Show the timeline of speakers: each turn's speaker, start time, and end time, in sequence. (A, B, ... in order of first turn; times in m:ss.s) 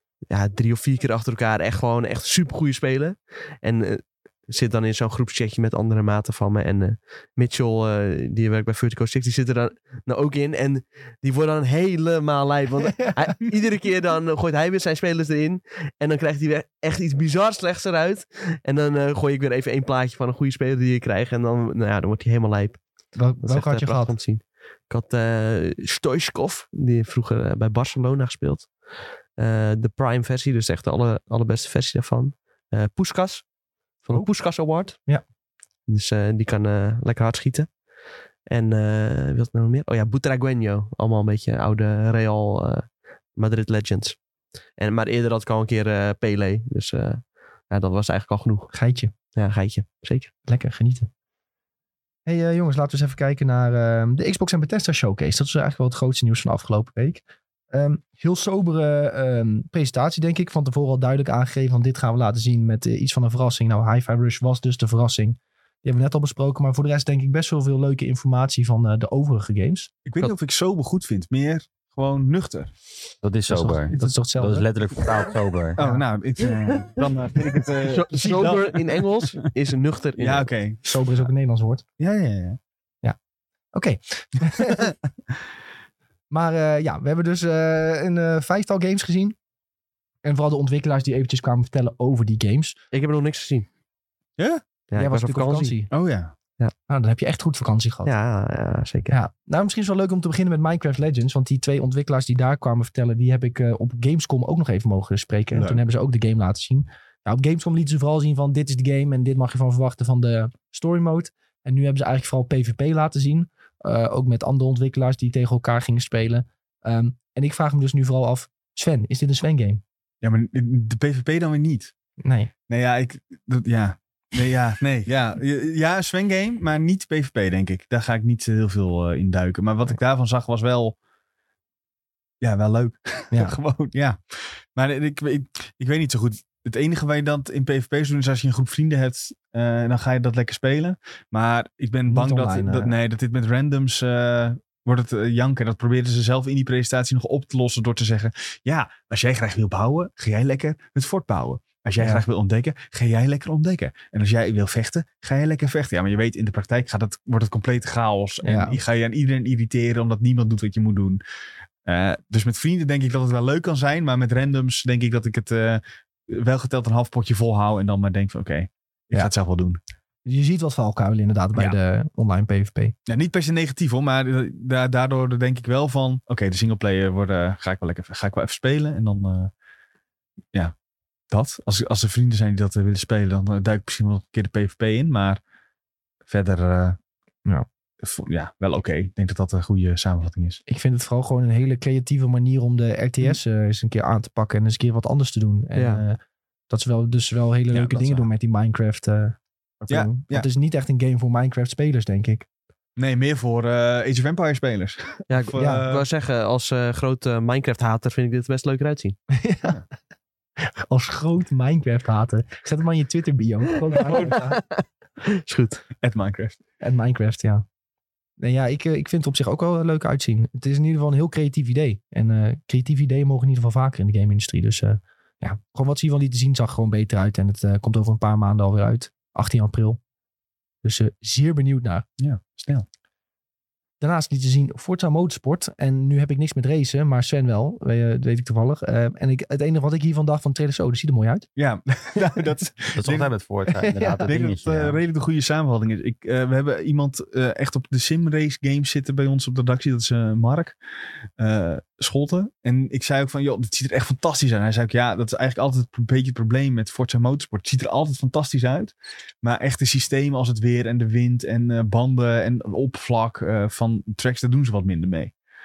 0:00.3-0:22.8 A
0:23.2-0:24.1 B
0:23.4-0:28.7 A
0:29.4-0:33.5 A
0:34.0-0:35.0 A
0:35.9-0:37.7 A
0:38.5-0:44.2 A
0:44.8-0:48.7 A
0:48.7-0:49.1 B
0:49.4-0:50.3 A
0:50.5-0:51.1 B
0:52.3-1:09.9 B
1:10.0-1:12.7 C
1:13.2-1:15.8 D
1:13.5-1:14.7 B
1:15.8-1:18.9 C
1:15.8-1:16.0 B
1:17.8-1:20.5 A
1:20.2-1:21.2 C
1:20.8-1:21.8 B
1:22.0-1:22.6 C
1:23.7-1:24.9 B
1:26.3-1:29.4 B
1:30.2-1:32.8 B
1:32.9-1:33.7 A
1:34.4-1:34.6 C
1:34.9-1:35.8 A
1:35.0-1:35.9 B
1:35.9-1:36.3 C
1:36.9-1:38.1 B
1:38.1-1:39.2 A
1:39.1-1:59.8 B
1:45.5-1:45.8 C
2:00.2-2:01.9 C
2:02.2-2:02.5 B
2:02.7-2:11.0 C
2:12.4-2:41.2 C
2:13.3-2:13.6 B
2:22.1-2:23.0 B
2:32.0-2:32.2 B
2:38.4-2:38.8 B
2:41.8-2:49.8 C
2:50.3-2:53.0 B
2:53.1-2:59.5 C
3:01.3-3:05.4 C
3:06.3-3:07.0 C
3:08.0-3:10.6 C
3:10.7-3:16.2 B
3:15.8-3:16.0 A
3:16.7-3:22.5 B
3:17.7-3:18.3 C
3:19.9-3:20.5 C
3:23.0-3:26.0 C
3:25.3-3:29.2 A
3:25.6-3:25.9 B
3:29.3-3:29.8 B
3:30.6-3:34.6 B
3:34.0-3:35.8 A
3:36.0-3:36.6 C
3:36.8-3:37.6 B
3:38.4-3:50.0 B
3:50.8-3:52.0 B
3:52.2-3:52.8 C
3:54.0-4:01.5 B
4:01.6-4:03.3 C
4:03.0-4:05.0 D
4:03.7-4:04.3 B
4:04.3-4:10.8 C
4:11.4-4:25.3 C